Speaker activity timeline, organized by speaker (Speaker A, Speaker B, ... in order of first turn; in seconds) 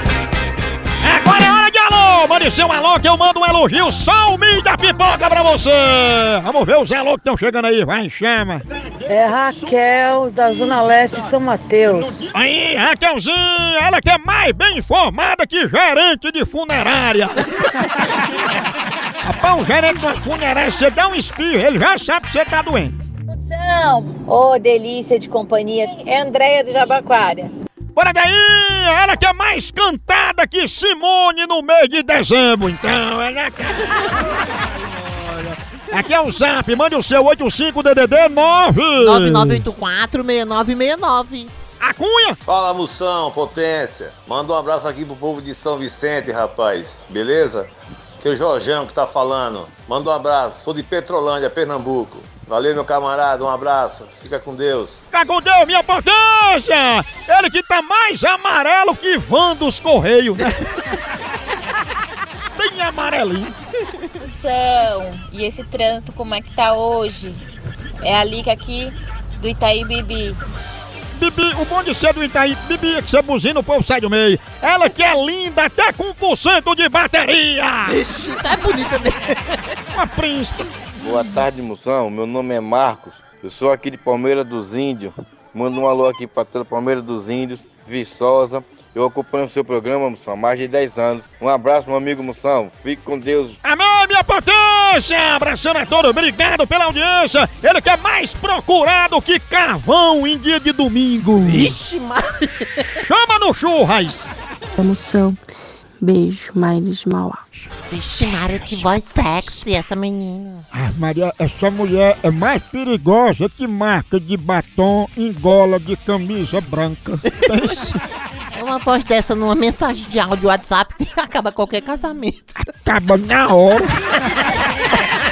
Speaker A: 1.0-8.6, 11.9-17.5, 19.2-22.9, 27.9-39.6, 41.8-42.4, 55.1-60.6, 62.5-63.5, 71.1-78.0, 79.9-80.8, 93.6-101.8, 103.0-104.3, 110.7-118.0, 122.6-123.9
Speaker B: 9.1-12.3
Speaker C: 23.3-27.5, 64.2-67.4, 68.0-70.4
Speaker D: 39.0-41.5, 77.8-79.5, 101.5-102.8, 107.9-110.7, 118.5-122.5
Speaker E: 42.4-47.7, 48.2-55.0
Speaker F: 81.0-93.6
Speaker G: 104.8-105.4, 106.0-107.4